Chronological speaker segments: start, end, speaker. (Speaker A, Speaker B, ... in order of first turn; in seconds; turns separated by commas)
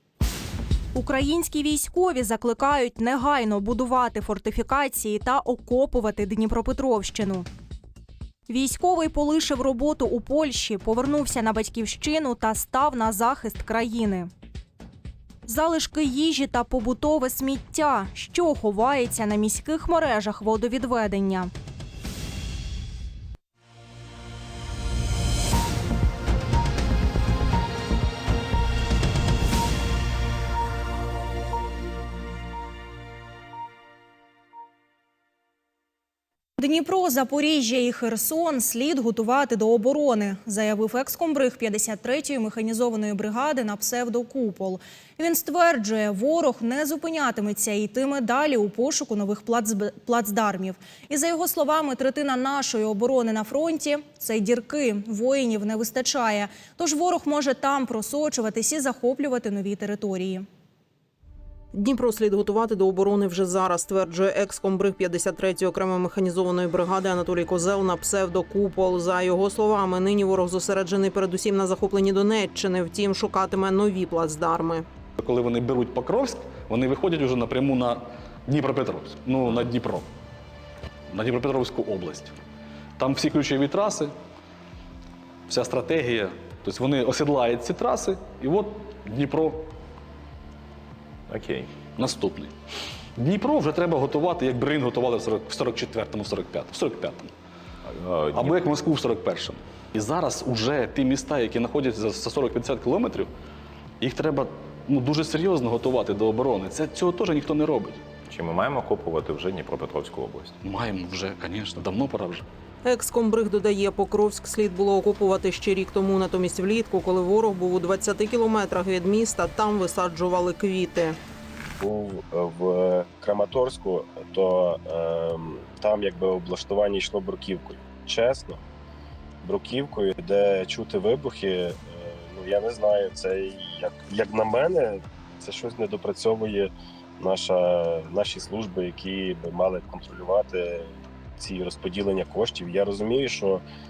Speaker A: 0.9-7.5, Speaker A: 8.5-14.3, Speaker A: 15.5-21.5, Speaker A: 36.6-60.5, Speaker B: 61.7-74.9, Speaker C: 75.2-80.1, Speaker C: 81.1-82.3, Speaker C: 83.0-84.2, Speaker C: 85.5-89.7, Speaker D: 91.3-91.7, Speaker C: 92.0-92.5, Speaker C: 93.2-97.3, Speaker D: 97.9-98.6, Speaker C: 98.3-103.3, Speaker C: 104.0-108.0, Speaker D: 108.3-110.5, Speaker C: 110.6-112.5, Speaker B: 112.8-121.2, Speaker E: 121.8-128.6, Speaker E: 129.4-143.6